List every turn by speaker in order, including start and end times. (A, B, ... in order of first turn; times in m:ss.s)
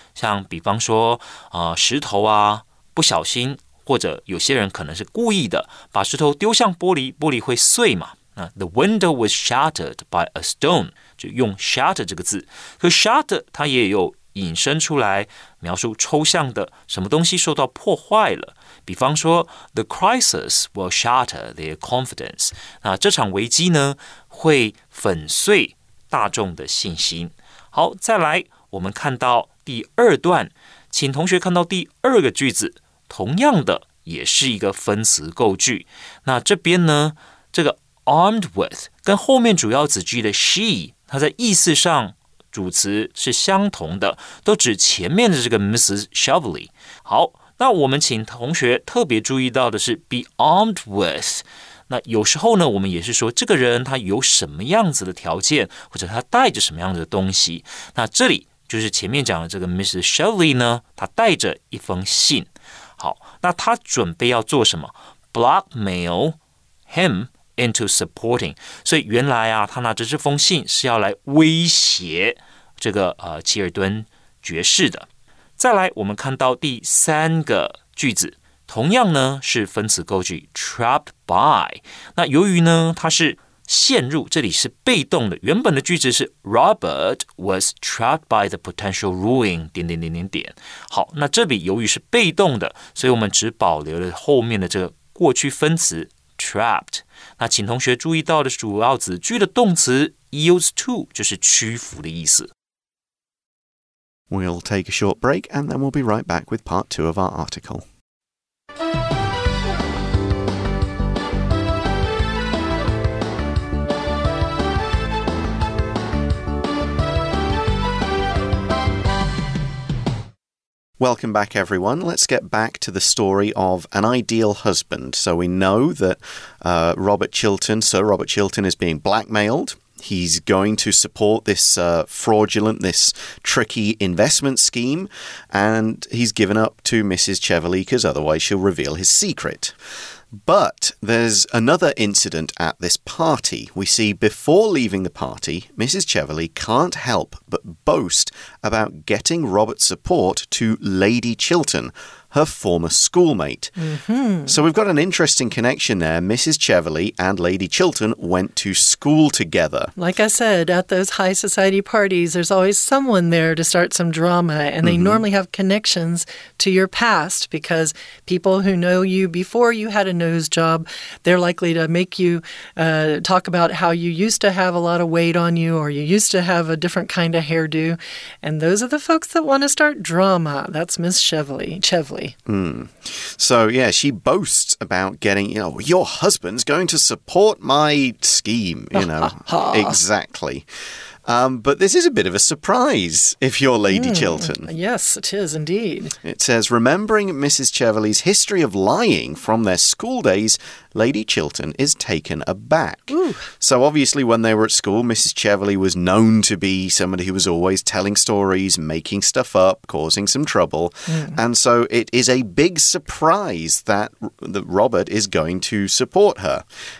0:00.2-1:06.4 A
1:06.9-1:15.1 A
1:15.6-1:42.5 A
1:44.3-1:47.8 B
2:01.0-2:19.7 B
2:20.3-2:33.7 B
2:33.8-2:34.6 C
2:34.5-2:39.9 B
2:40.0-3:02.3 C
2:44.8-2:45.2 B
3:02.5-3:10.6 B
3:09.0-3:10.0 C
3:11.2-3:14.7 B
3:13.9-3:16.1 C
3:16.2-3:36.6 B
3:23.1-3:23.4 C
3:31.1-3:31.4 C